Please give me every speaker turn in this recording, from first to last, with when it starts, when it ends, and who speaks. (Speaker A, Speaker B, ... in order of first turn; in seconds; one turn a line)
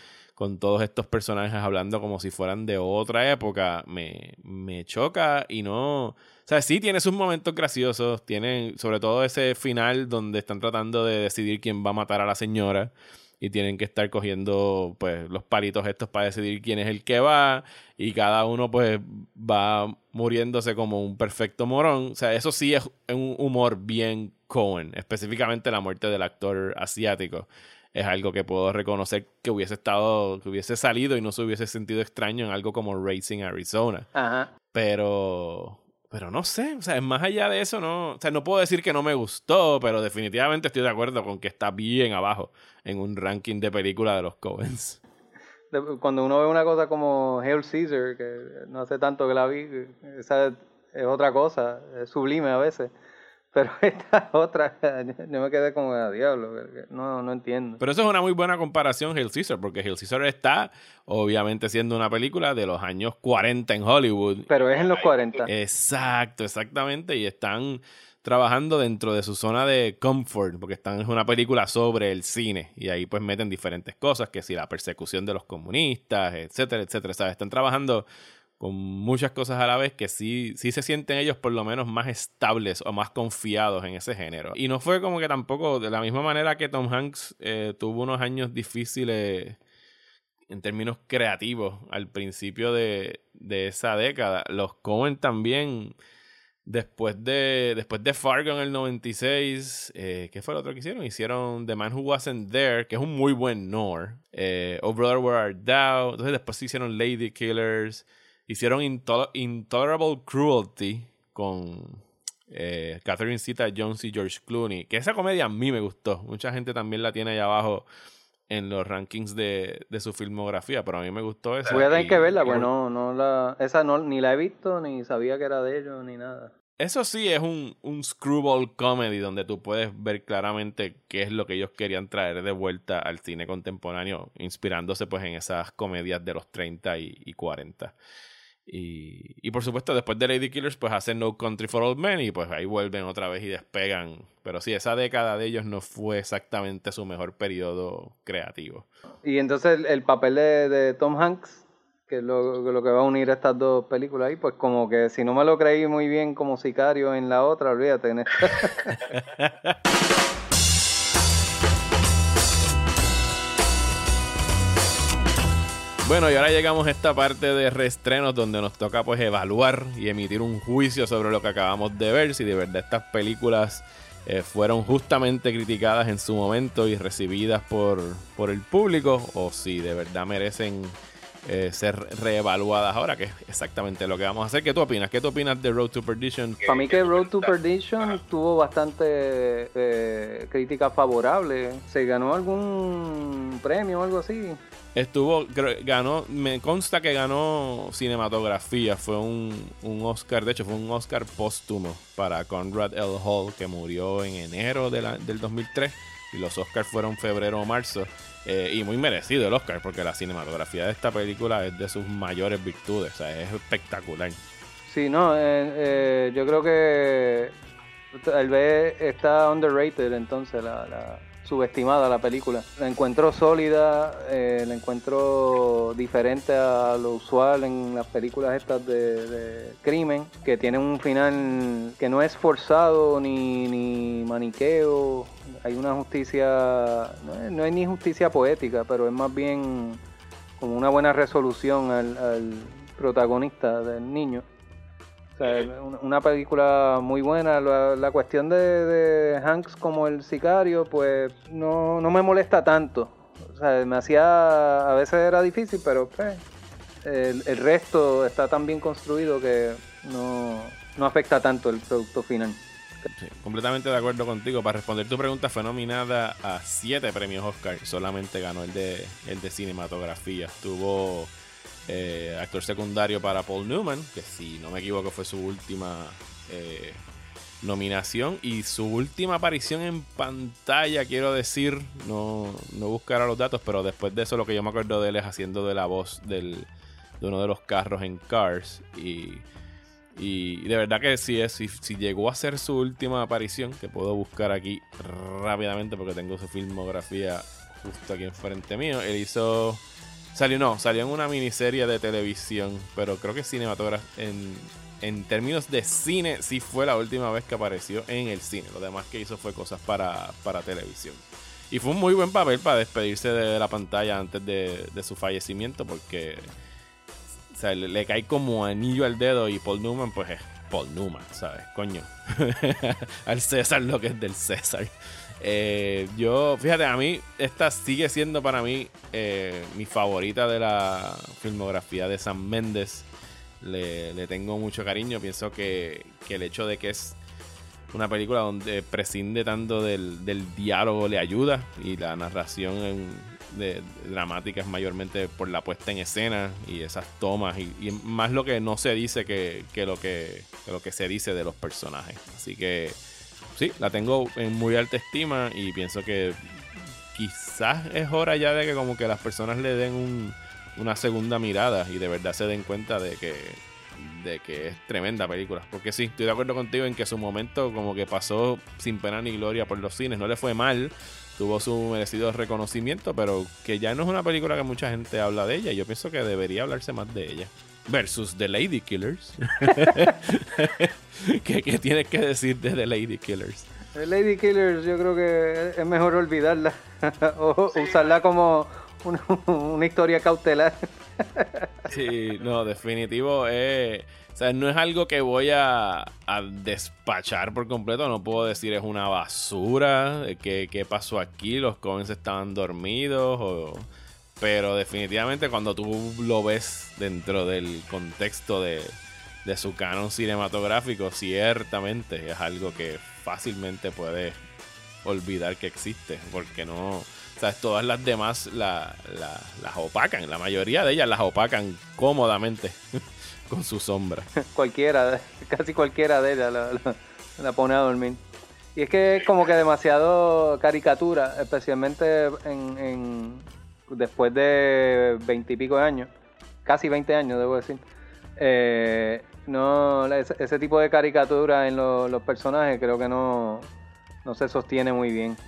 Speaker A: 0.4-34.1
Speaker B: 34.1-34.5
Speaker A: 34.7-45.0
Speaker B: 45.7-52.9
Speaker B: 53.5-57.8
Speaker A: 57.8-64.5
Speaker B: 64.5-65.5
Speaker A: 65.5-78.1
Speaker A: 78.6-89.6
Speaker A: 90.5-95.9
Speaker A: 96.7-117.8
Speaker A: 118.5-122.7
Speaker B: 121.7-126.5
Speaker A: 126.8-137.9
Speaker A: 138.7-148.8
Speaker B: 149.2-159.0
Speaker A: 159.1-159.7
Speaker A: 166.0-186.7
Speaker B: 186.6-194.6
Speaker A: 194.9-214.4
Speaker B: 214.9-217.5
Speaker B: 218.1-240.0
Speaker B: 240.6-244.4
Speaker B: 245.4-256.4
Speaker B: 257.0-262.6
Speaker A: 263.1-271.3
Speaker A: 271.9-277.0
Speaker A: 277.6-289.4
Speaker A: 290.1-299.8
Speaker A: 300.3-316.5
Speaker A: 317.5-333.1
Speaker A: 333.6-337.2
Speaker A: 337.9-353.0
Speaker A: 353.5-356.4
Speaker A: 357.1-383.7
Speaker B: 383.9-391.9
Speaker A: 391.9-403.9
Speaker A: 404.4-414.4
Speaker A: 415.0-424.3
Speaker B: 424.4-428.2
Speaker B: 428.8-436.1
Speaker B: 436.6-437.8
Speaker B: 438.4-443.7
Speaker B: 444.2-445.4